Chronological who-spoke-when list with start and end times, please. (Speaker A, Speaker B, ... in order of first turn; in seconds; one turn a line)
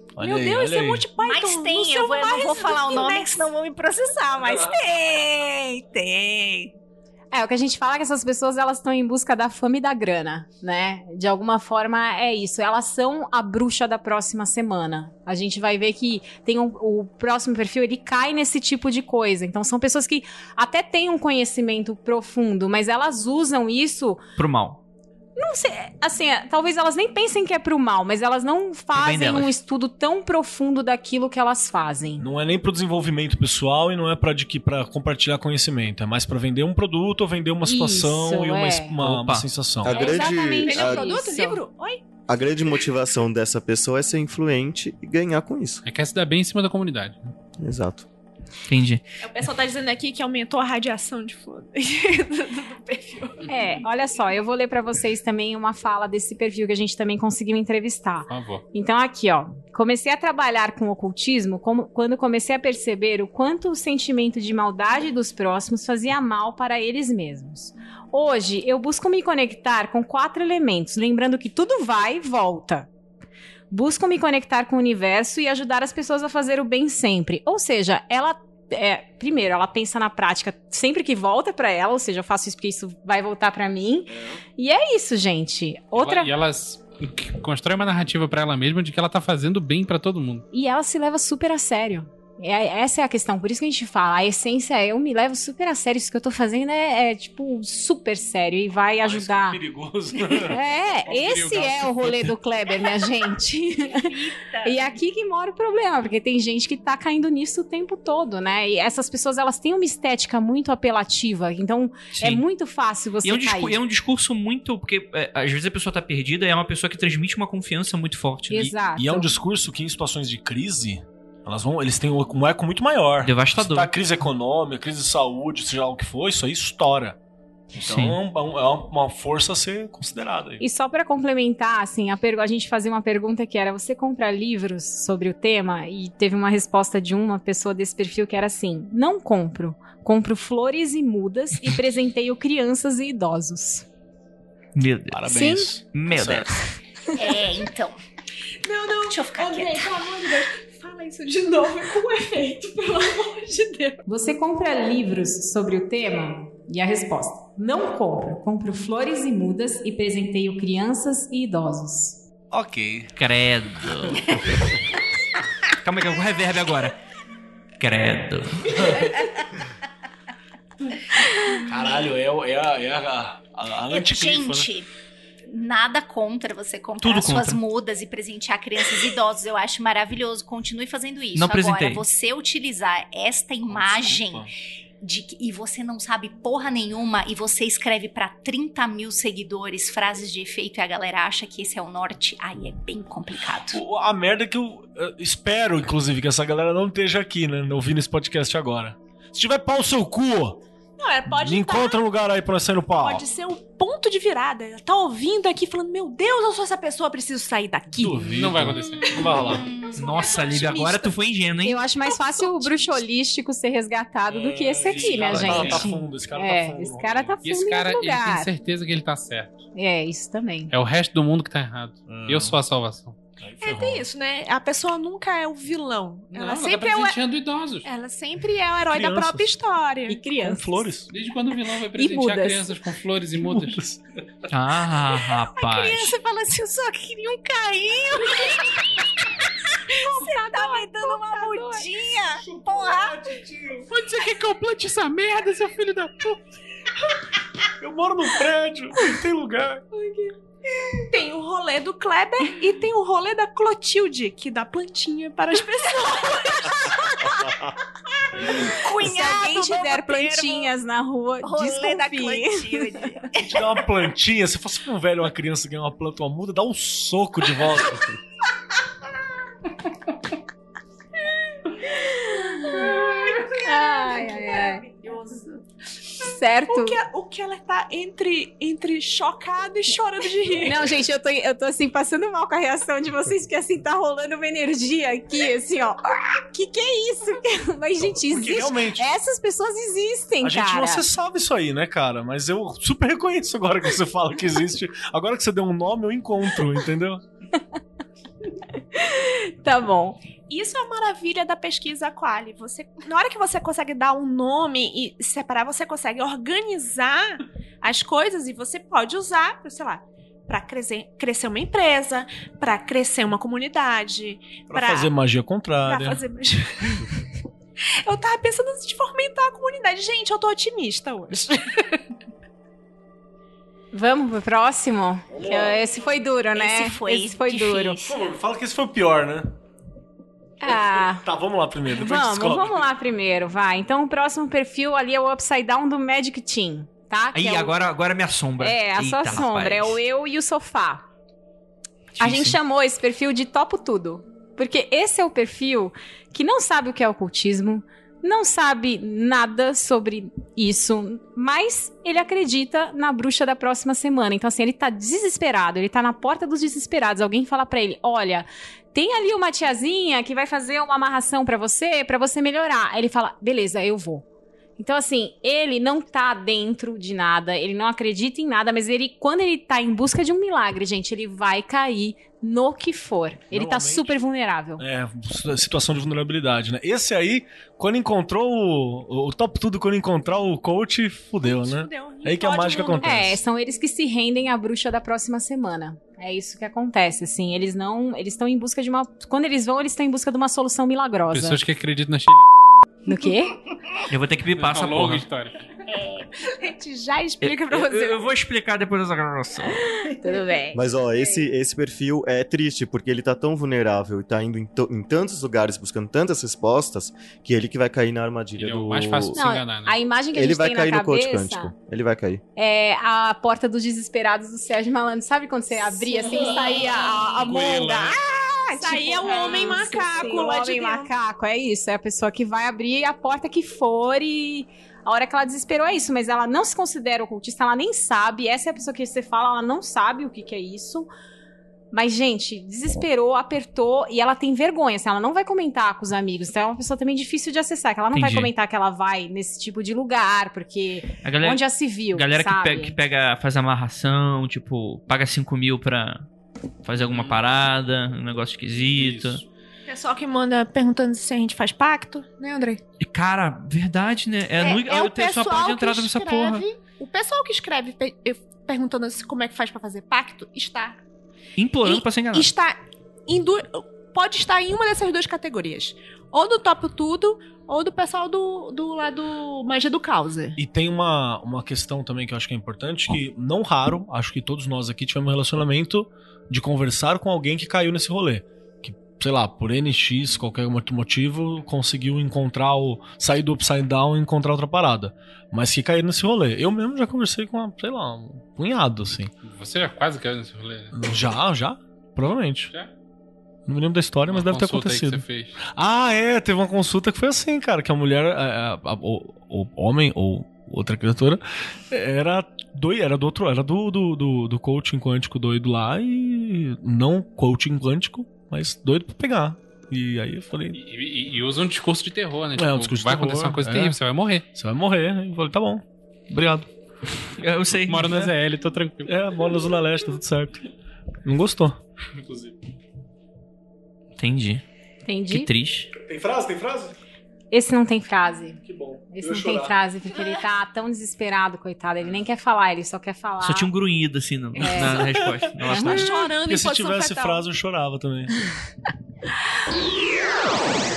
Speaker A: 0.2-1.1
Speaker B: 0.2-3.3
Speaker C: 1.1-6.7
Speaker D: 7.3-24.2
Speaker E: 24.4-24.8
Speaker D: 25.4-32.2
Speaker E: 28.9-29.6
Speaker A: 32.2-40.0
Speaker D: 37.6-39.0
Speaker E: 39.0-39.5
Speaker F: 39.8-41.1
Speaker D: 39.9-41.6
Speaker B: 39.9-42.0
Speaker F: 42.3-45.8
Speaker G: 45.9-47.2
Speaker F: 47.6-48.1
Speaker E: 48.7-49.0
Speaker B: 49.2-53.6
Speaker D: 53.5-72.9
Speaker G: 58.3-58.6
Speaker D: 73.7-86.3
Speaker G: 85.9-90.5
Speaker D: 90.5-99.6
Speaker A: 99.0-100.6
Speaker D: 100.5-104.1
Speaker G: 101.1-102.4
Speaker C: 103.8-105.0
Speaker D: 104.6-113.8
Speaker E: 112.1-112.4
Speaker E: 113.2-118.8
Speaker D: 118.5-119.3
Speaker A: 119.0-127.2
Speaker E: 123.2-123.9
Speaker A: 127.8-130.6
Speaker E: 127.8-128.2
Speaker D: 130.6-143.9
Speaker E: 144.8-146.6
Speaker A: 145.1-146.6
Speaker D: 145.3-145.8
Speaker C: 147.2-148.0
Speaker B: 148.6-154.0
Speaker C: 149.1-150.1
Speaker D: 154.1-162.2
Speaker A: 162.5-163.1
Speaker E: 163.2-164.6
Speaker E: 165.8-167.0
Speaker E: 167.8-169.0
Speaker A: 171.7-174.7
Speaker C: 173.9-174.9
Speaker C: 175.5-184.5
Speaker E: 177.0-177.6
Speaker E: 181.3-182.0
Speaker A: 183.7-184.5
Speaker C: 185.0-193.8
Speaker A: 193.7-200.6
Speaker B: 201.0-202.0
Speaker A: 201.4-203.2
Speaker B: 203.0-208.6
Speaker A: 208.0-209.7
Speaker G: 208.2-209.2
Speaker C: 209.4-210.4
Speaker E: 210.0-211.8
Speaker B: 210.2-211.1
Speaker D: 211.7-218.5
Speaker B: 212.0-213.0
Speaker A: 214.3-217.4
Speaker G: 214.9-215.9
Speaker G: 217.4-219.6
Speaker D: 219.8-220.7
Speaker G: 220.7-223.2
Speaker A: 222.1-222.6
Speaker A: 223.4-224.1
Speaker B: 223.6-227.2
Speaker G: 226.3-227.9
Speaker B: 227.8-230.4
Speaker A: 228.9-229.5
Speaker D: 230.1-230.9
Speaker A: 230.4-231.1
Speaker G: 231.1-233.8
Speaker D: 231.9-232.8
Speaker A: 233.4-234.0
Speaker E: 234.5-236.2
Speaker B: 235.1-238.8
Speaker B: 239.9-243.2
Speaker D: 240.0-241.9
Speaker A: 242.4-243.9
Speaker G: 243.9-246.4
Speaker B: 244.0-244.4
Speaker A: 247.8-249.8
Speaker B: 249.9-250.3
Speaker B: 250.9-257.0
Speaker C: 258.5-260.7
Speaker D: 258.5-263.1
Speaker C: 261.4-263.9
Speaker A: 263.4-268.2
Speaker D: 272.1-272.9
Speaker B: 272.7-275.6
Speaker D: 273.6-274.9
Speaker D: 276.2-277.0
Speaker B: 276.2-281.0
Speaker D: 280.6-291.1
Speaker A: 288.2-289.1
Speaker A: 290.4-297.2
Speaker D: 298.9-300.2
Speaker B: 300.5-315.1
Speaker A: 314.7-316.2
Speaker B: 315.8-317.1
Speaker B: 318.1-322.0
Speaker D: 323.9-328.0
Speaker A: 325.3-326.1
Speaker C: 326.6-328.2
Speaker A: 328.1-329.6
Speaker D: 330.6-331.3
Speaker A: 330.7-332.8
Speaker D: 331.9-337.7
Speaker E: 337.3-340.0
Speaker D: 338.6-341.1
Speaker E: 342.2-342.6
Speaker D: 342.2-364.2
Speaker D: 364.8-374.8
Speaker A: 373.5-374.2
Speaker A: 374.8-383.4
Speaker B: 381.4-383.3
Speaker D: 383.0-391.6
Speaker G: 391.3-392.5
Speaker D: 393.1-393.6
Speaker E: 394.1-395.3
Speaker G: 394.6-395.6
Speaker B: 396.4-398.3
Speaker E: 397.4-399.9
Speaker D: 400.0-401.3
Speaker F: 400.7-409.4
Speaker G: 408.6-410.0
Speaker D: 409.4-411.7
Speaker F: 410.3-412.4
Speaker D: 412.6-418.2
Speaker B: 416.0-417.1
Speaker G: 417.4-418.1
Speaker B: 417.9-421.1
Speaker D: 418.7-431.1
Speaker D: 431.9-442.9
Speaker E: 438.1-438.5
Speaker E: 441.2-446.3
Speaker E: 446.8-449.4
Speaker G: 447.1-447.4
Speaker G: 449.0-449.4
Speaker B: 449.9-452.8
Speaker E: 453.0-456.6
Speaker B: 454.6-461.0
Speaker E: 461.6-462.5
Speaker B: 461.8-470.6
Speaker A: 470.6-489.3
Speaker G: 489.4-490.9
Speaker A: 490.9-492.7
Speaker A: 493.7-510.8
Speaker G: 494.3-495.6
Speaker G: 510.7-514.5
Speaker A: 512.6-514.0
Speaker A: 514.5-516.7
Speaker E: 517.3-518.1
Speaker G: 517.9-519.5
Speaker A: 518.1-518.4
Speaker A: 519.1-520.6
Speaker A: 521.2-522.5
Speaker E: 524.2-524.6
Speaker D: 525.1-525.5
Speaker E: 525.3-525.9
Speaker A: 526.1-527.0
Speaker D: 527.5-528.6
Speaker A: 528.6-529.8
Speaker D: 529.1-533.7
Speaker E: 533.4-536.2
Speaker D: 534.6-535.2
Speaker A: 534.6-538.3
Speaker D: 535.7-536.1
Speaker B: 535.7-537.5